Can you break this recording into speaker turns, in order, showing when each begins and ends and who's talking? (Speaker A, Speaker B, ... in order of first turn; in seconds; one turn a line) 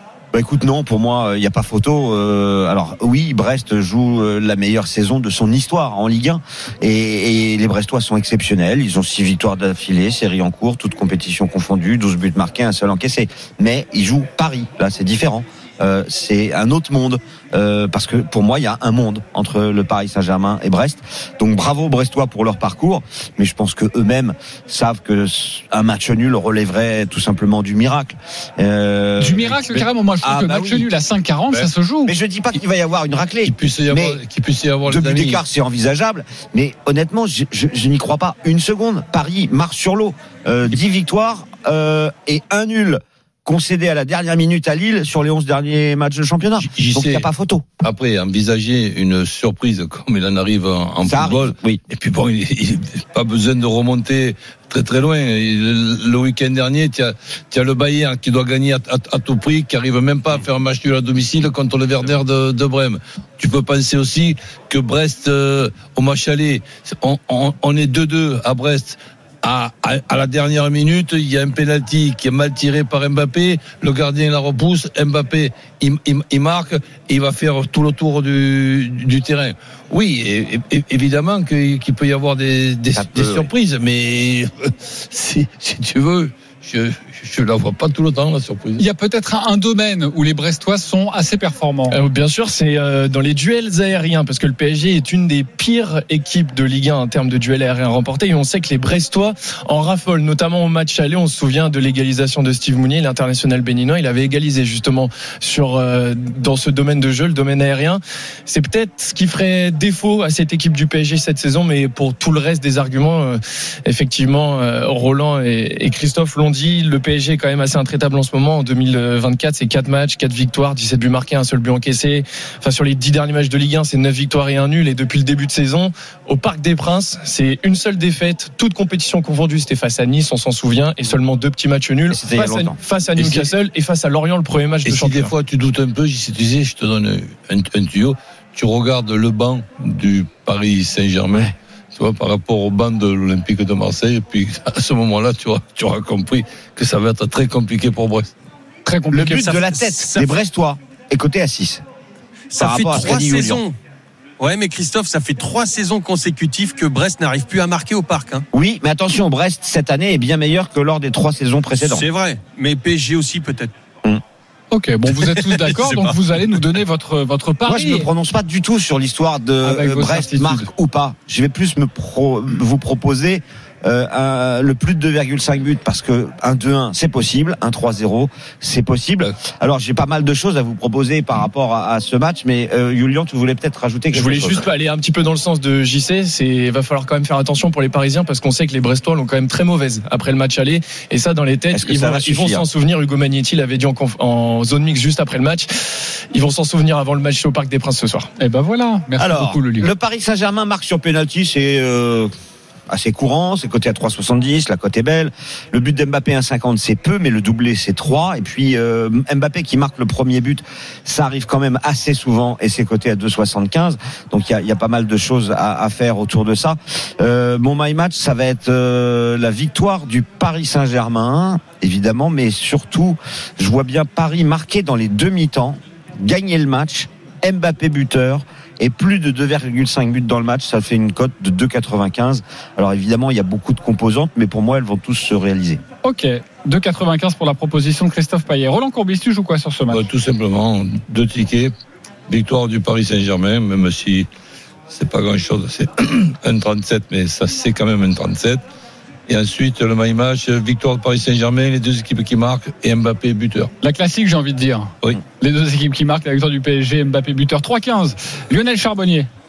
Speaker A: 0.3-30.9
Speaker B: 29.2-32.1
Speaker A: 32.1-34.2
Speaker C: 33.5-35.4
Speaker A: 34.9-47.7
Speaker C: 46.6-47.3
Speaker C: 47.8-88.8
Speaker A: 51.1-51.8
Speaker A: 82.9-83.5
Speaker B: 88.8-92.0
Speaker D: 91.9-135.3
Speaker A: 132.1-132.8
Speaker C: 133.2-133.5
Speaker C: 134.8-148.3
Speaker B: 148.8-149.6
Speaker A: 149.1-151.8
Speaker E: 149.4-150.4
Speaker E: 152.5-153.8
Speaker A: 152.6-153.6
Speaker E: 154.4-158.4
Speaker A: 158.5-162.1
Speaker E: 161.8-163.7
Speaker B: 164.7-168.1
Speaker E: 165.2-166.2
Speaker A: 167.7-184.6
Speaker B: 169.6-170.7
Speaker D: 184.1-195.7
Speaker A: 191.7-192.7
Speaker D: 196.3-198.3
Speaker B: 198.4-199.9
Speaker A: 199.2-202.3
Speaker A: 202.9-235.8
Speaker B: 236.0-240.1
Speaker C: 239.9-241.7
Speaker C: 242.3-244.3
Speaker C: 244.9-248.6
Speaker C: 249.3-253.7
Speaker B: 253.8-259.3